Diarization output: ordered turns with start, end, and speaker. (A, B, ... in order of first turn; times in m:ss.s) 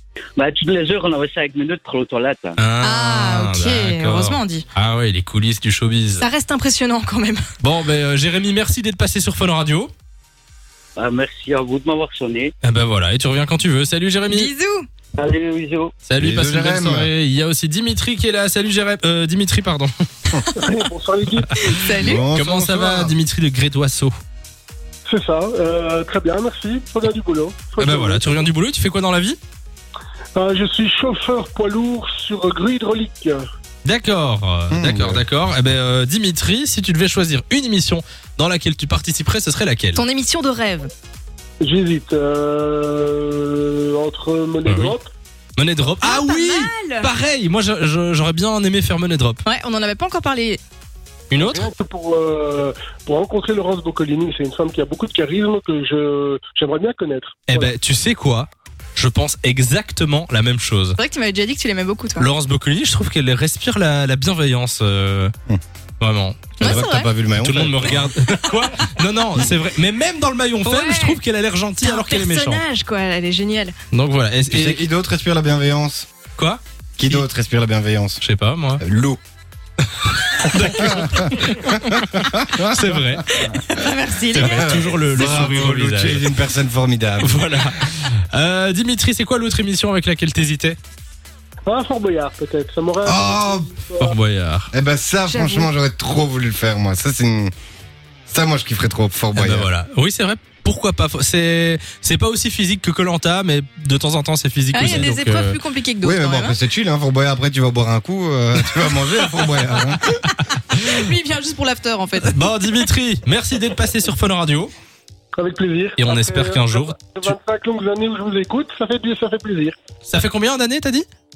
0:00.4-0:02.6 A
0:02.6-0:06.2 B
0:02.8-0:04.6 C
0:06.2-0:07.5 C
0:07.6-0:09.9 B
0:11.0-0:12.5 A
0:12.6-0:14.5 B
0:14.3-0:14.9 C
0:15.2-0:15.9 A
0:16.1-0:19.9 B
0:16.2-0:17.1 D
0:20.6-0:21.7 E
0:21.6-0:22.2 C
0:22.0-0:23.1 D
0:22.2-0:24.1 B
0:25.1-0:28.4 E
0:27.8-0:29.4 B
0:30.4-0:33.4 E
0:33.8-0:40.0 B
0:34.7-0:35.2 D
0:40.0-0:40.9 C
0:41.6-0:45.1 E
0:44.7-0:44.9 B
0:45.6-0:49.4 B
0:46.0-0:47.1 C
0:49.4-0:50.6 C
0:51.3-0:51.7 B
0:51.4-0:57.7 E
0:57.5-1:01.0 B
1:01.0-1:02.3 C
1:02.2-1:05.3 B
1:06.0-1:06.9 B
1:06.6-1:07.1 C
1:06.6-1:08.1 D
1:07.4-1:12.6 B
1:10.6-1:11.2 C
1:11.8-1:13.7 C
1:13.9-1:14.9 B
1:14.5-1:16.1 D
1:16.4-1:17.3 B
1:17.0-1:18.2 D
1:18.2-1:18.8 B
1:18.8-1:19.2 D
1:19.9-1:22.0 B
1:20.6-1:23.1 D
1:22.6-1:23.2 B
1:23.4-1:24.8 C
1:24.3-1:26.3 B
1:24.3-1:27.8 D
1:27.2-1:30.8 B
1:31.7-1:34.2 E
1:33.0-1:33.7 D
1:34.0-1:34.7 B
1:34.7-1:37.5 D
1:35.3-1:35.7 C
1:38.3-1:39.7 D
1:39.4-1:45.6 B
1:44.7-1:46.6 C
1:46.0-1:50.2 D
1:48.8-1:51.0 B
1:50.7-1:52.5 C
1:52.2-1:54.7 B
1:55.3-1:59.8 E
1:56.0-1:57.4 B
2:00.1-2:01.1 B